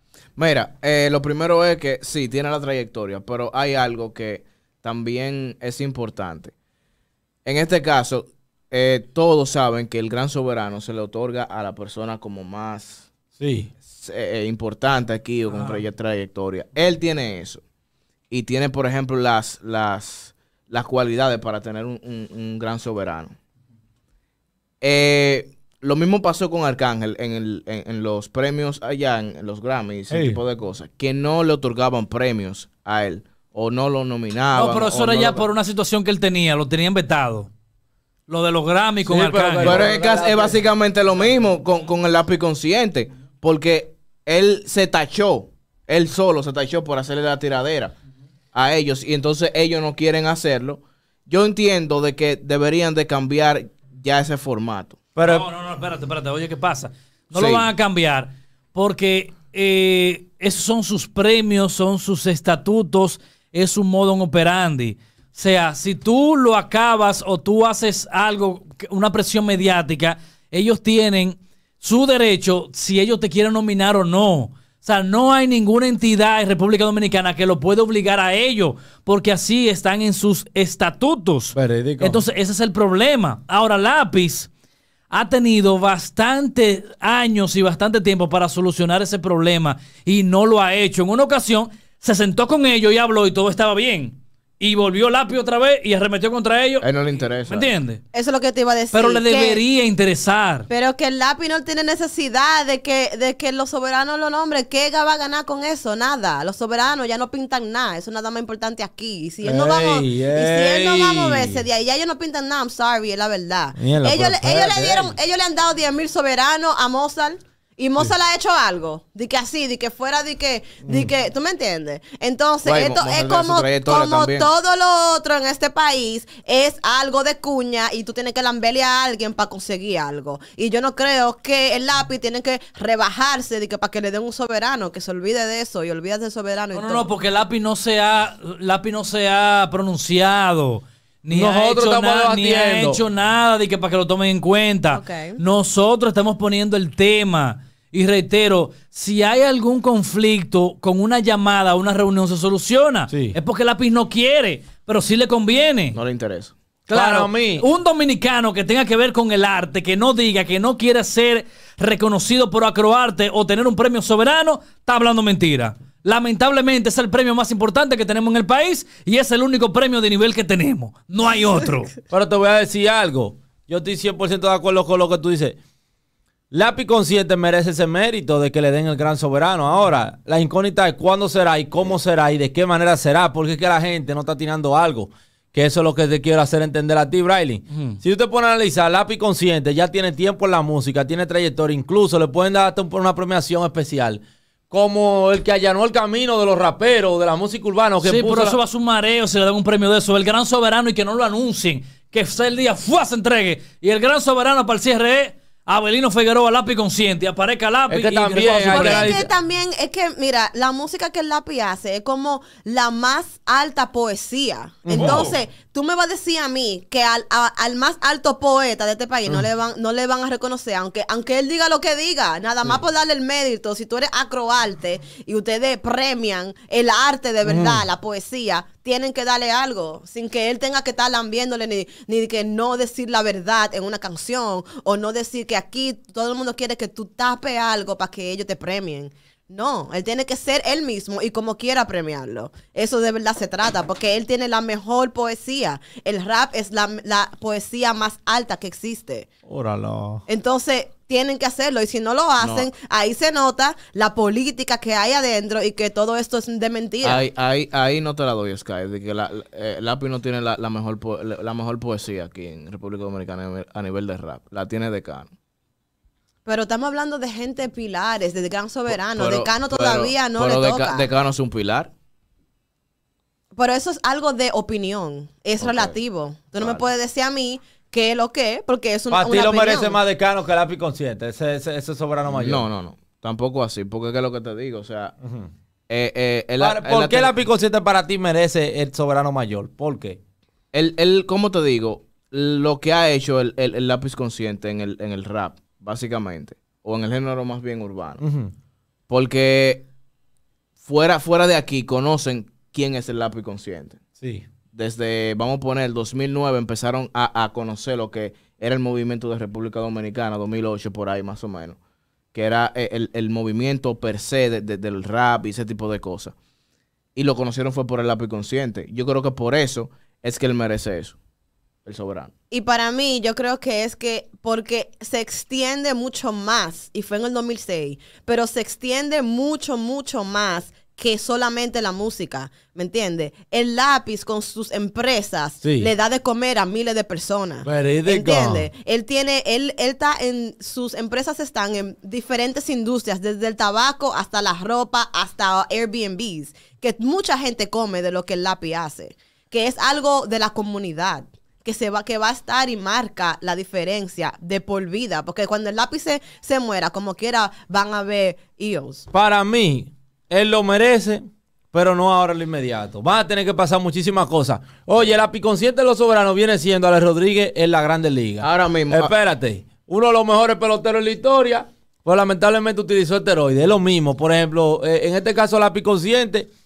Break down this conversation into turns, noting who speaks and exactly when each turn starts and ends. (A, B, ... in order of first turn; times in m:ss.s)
0:00.4-0:06.5 A
0:07.4-0:13.1 A
0:13.4-0:13.7 B
0:13.9-0:17.6 A
0:15.5-0:15.8 C
0:18.3-0:23.3 A
0:24.8-0:35.4 A
0:30.1-0:30.4 B
0:34.5-0:37.5 C
0:38.3-0:39.8 C
0:39.0-0:40.6 B
0:39.6-0:47.9 A
0:48.5-0:55.0 A
0:55.2-0:55.4 B
0:55.2-1:24.5 C
0:57.3-0:57.7 A
1:21.5-1:22.2 B
1:25.1-1:36.9 C
1:36.8-1:37.7 A
1:37.4-1:38.0 C
1:38.1-1:39.6 D
1:38.9-1:40.7 C
1:40.7-2:17.1 D
1:49.4-1:51.6 B
1:53.8-1:55.1 B
2:02.6-2:04.5 A
2:16.7-2:36.0 C
2:21.3-2:23.0 B
2:24.9-2:25.4 D
2:33.1-2:33.4 B
2:35.9-2:36.5 A
2:36.9-2:51.9 C
2:36.9-2:37.6 B
2:52.1-2:55.6 B
2:56.5-3:18.6 B
3:07.7-3:08.0 C
3:18.0-3:29.2 C
3:27.9-3:29.3 B
3:28.7-4:09.3 D
3:34.9-3:35.3 B
3:34.9-3:35.4 C
3:47.4-3:47.8 B
4:09.5-4:10.2 B
4:10.3-4:17.2 D
4:12.4-4:12.7 A
4:17.0-4:25.3 A
4:26.4-4:31.1 D
4:28.9-4:31.9 A
4:33.5-4:40.0 D
4:35.6-4:35.9 A
4:36.6-4:36.8 A
4:39.1-4:42.6 B
4:42.2-4:45.1 A
4:45.2-4:45.5 B
4:45.9-4:47.3 A
4:46.6-4:50.2 B
4:50.7-4:58.2 A
4:58.2-4:58.5 B
4:59.1-4:59.8 A
5:00.8-5:04.0 A
5:04.2-5:04.4 B
5:04.7-5:11.8 A
5:12.3-5:16.3 A
5:17.1-5:21.2 A
5:21.8-5:22.3 A
5:22.5-5:59.0 D
5:35.6-5:35.9 B
5:37.6-5:38.7 B
5:59.1-6:16.5 B
6:08.4-6:09.1 A